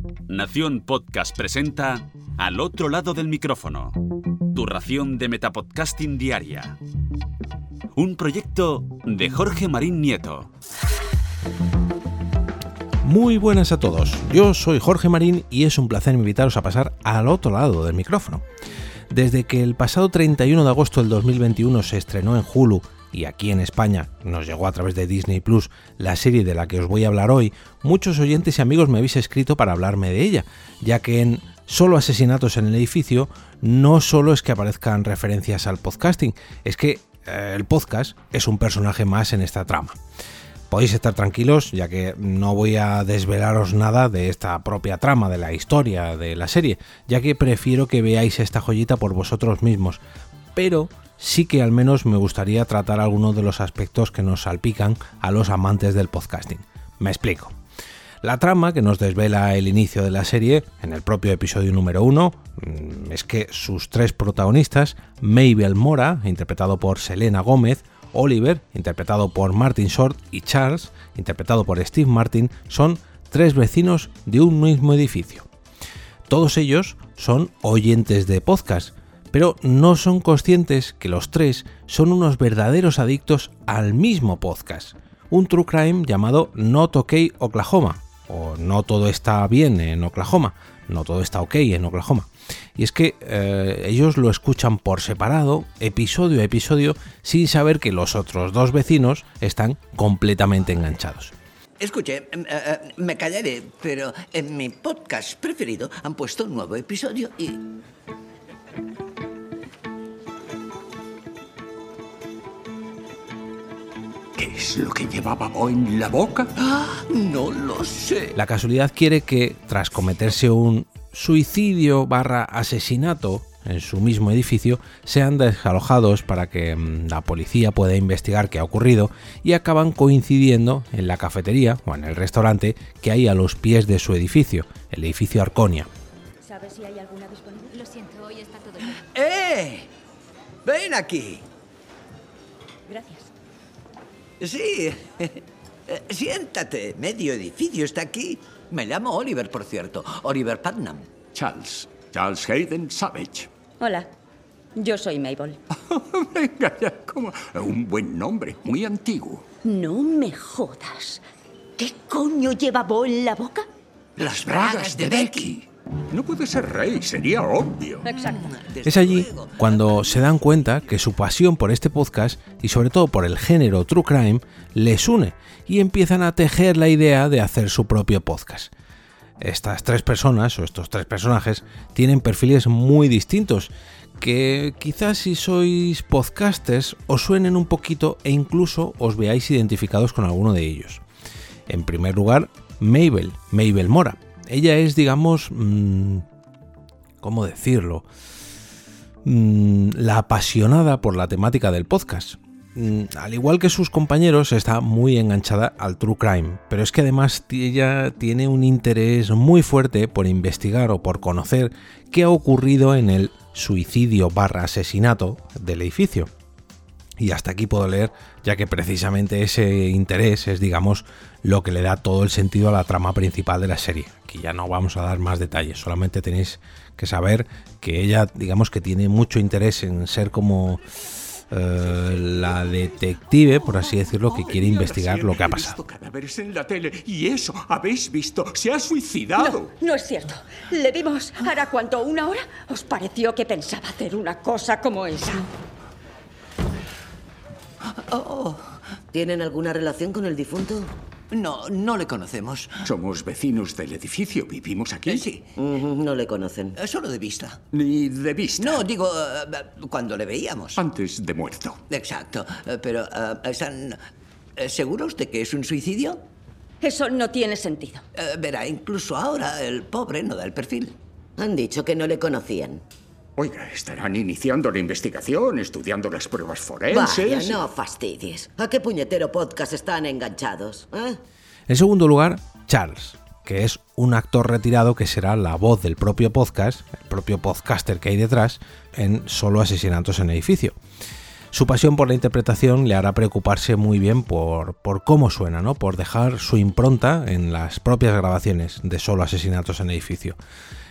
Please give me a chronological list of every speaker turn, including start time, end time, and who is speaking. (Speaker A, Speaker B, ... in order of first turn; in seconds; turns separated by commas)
Speaker A: 0.4-3.9, Speaker A: 4.5-6.7, Speaker A: 8.0-10.5, Speaker B: 13.0-18.4, Speaker B: 19.1-40.0, Speaker B: 40.7-50.0, Speaker B: 50.5-57.5, Speaker B: 58.2-75.5, Speaker B: 76.3-101.3, Speaker C: 101.8-107.7, Speaker D: 114.4-116.5, Speaker C: 116.6-118.4, Speaker B: 118.4-135.9, Speaker E: 136.4-138.4, Speaker C: 138.8-139.9, Speaker C: 140.7-141.4, Speaker E: 142.9-143.3, Speaker C: 144.4-151.1, Speaker D: 151.3-153.5, Speaker E: 153.8-154.1, Speaker E: 154.8-155.6, Speaker D: 155.7-159.4, Speaker E: 159.6-161.2, Speaker E: 161.8-163.7, Speaker C: 164.2-165.6, Speaker D: 164.2-168.1, Speaker E: 168.1-168.5, Speaker C: 168.2-170.3, Speaker B: 168.8-178.7, Speaker B: 179.4-191.0, Speaker B: 191.7-196.3, Speaker B: 197.2-198.1, Speaker B: 199.2-216.3, Speaker B: 217.2-230.8, Speaker B: 231.5-235.8, Speaker D: 234.3-239.7, Speaker E: 239.4-245.5, Speaker C: 247.9-248.8, Speaker F: 249.1-250.9, Speaker C: 251.3-252.9, Speaker D: 252.8-255.3, Speaker C: 255.1-255.7, Speaker F: 255.6-256.8, Speaker C: 256.8-257.6, Speaker D: 257.7-258.8, Speaker C: 258.6-260.8, Speaker D: 260.8-261.8, Speaker C: 261.9-264.0, Speaker C: 264.6-266.2, Speaker E: 266.8-268.0, Speaker C: 268.1-271.0, Speaker F: 271.4-272.8, Speaker D: 273.4-277.6, Speaker F: 276.9-281.2, Speaker B: 281.7-290.8, Speaker B: 291.5-300.4